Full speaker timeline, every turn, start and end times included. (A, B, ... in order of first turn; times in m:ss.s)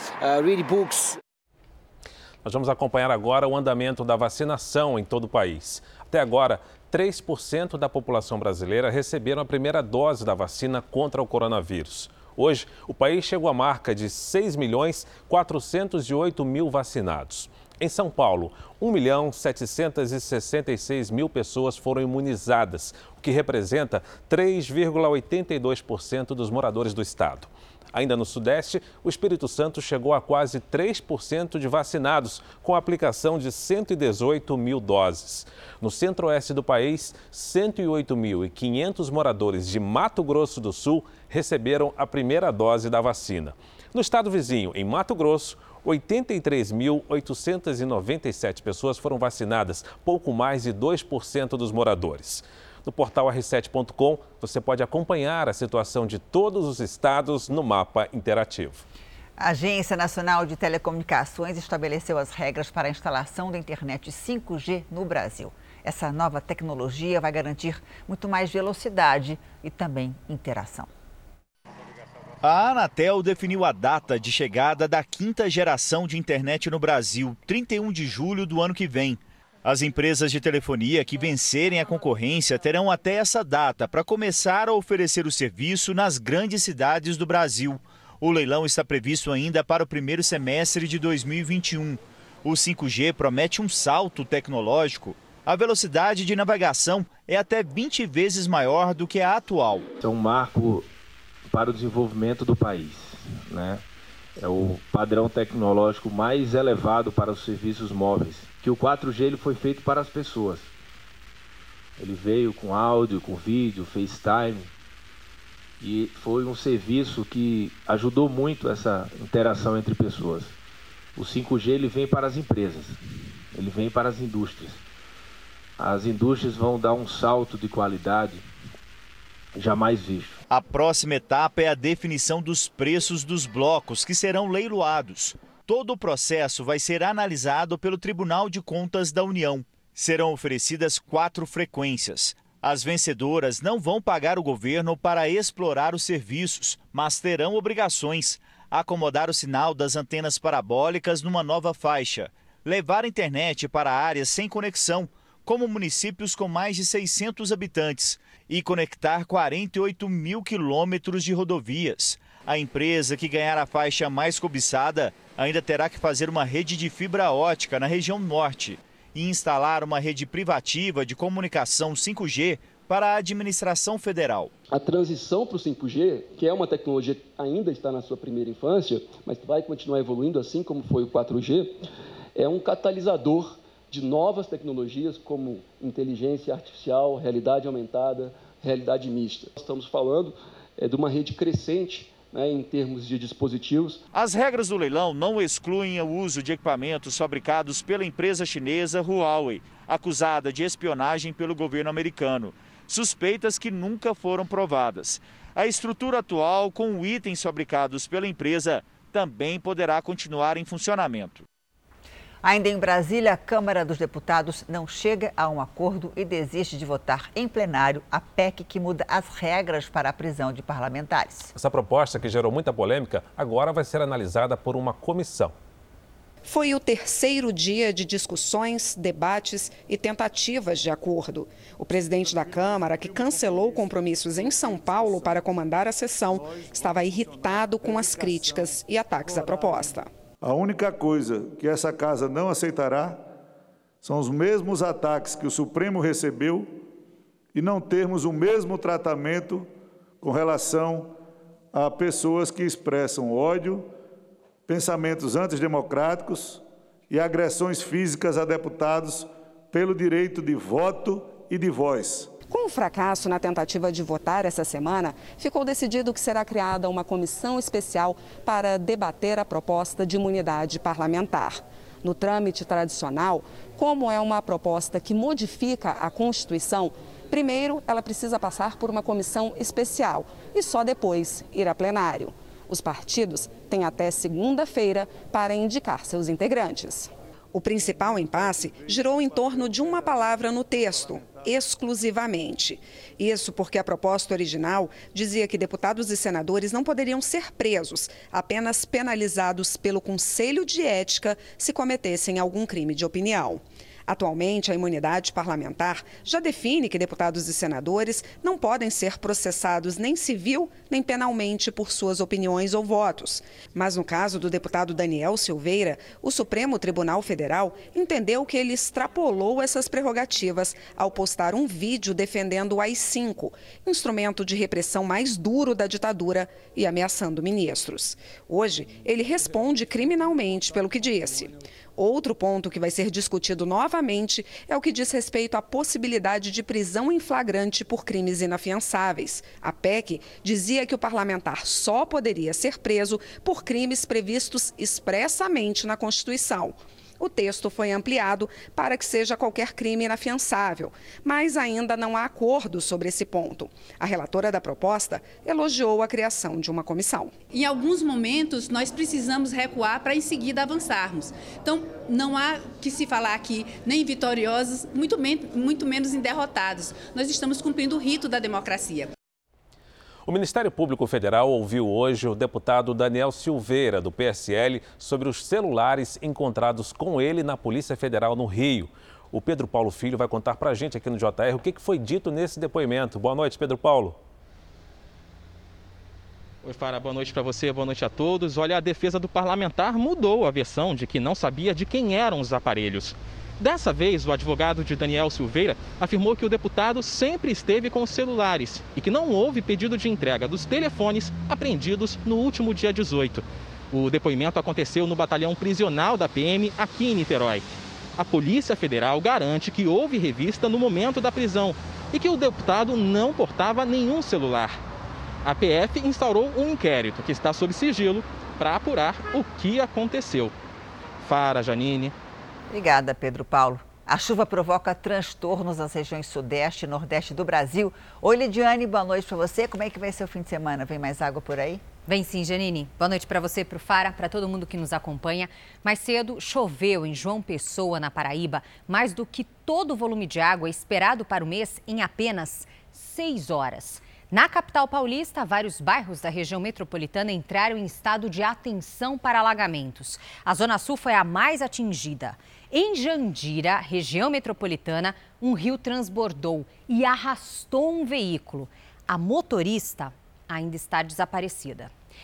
0:02.4-0:58.8 A
0:59.4-1:10.9 B
1:12.4-1:39.9 C
1:40.0-1:40.8 D
1:41.5-1:43.8 D
1:44.4-1:50.7 D
1:52.0-1:54.7 D
1:55.8-2:00.5 D
2:01.2-2:03.0 D
2:03.5-2:04.8 D
2:05.8-2:08.4 D
2:09.5-2:10.4 D
2:10.5-2:54.5 C
2:54.7-3:01.8 E
3:02.4-3:14.0 E
3:14.1-3:31.4 C
3:32.4-3:41.5 B
3:41.6-3:45.5 A
3:46.4-4:00.1 F
4:00.4-4:03.3 G
4:04.0-4:06.9 G
4:07.5-4:11.2 G
4:11.7-4:13.9 G
4:14.7-4:22.3 G
4:22.5-5:57.4 F
5:57.5-6:08.9 H
6:10.2-6:24.2 A
6:26.6-6:54.8 I
6:55.4-7:00.5 I
7:01.2-7:02.1 I
7:02.7-7:11.8 B
7:12.0-7:41.9 J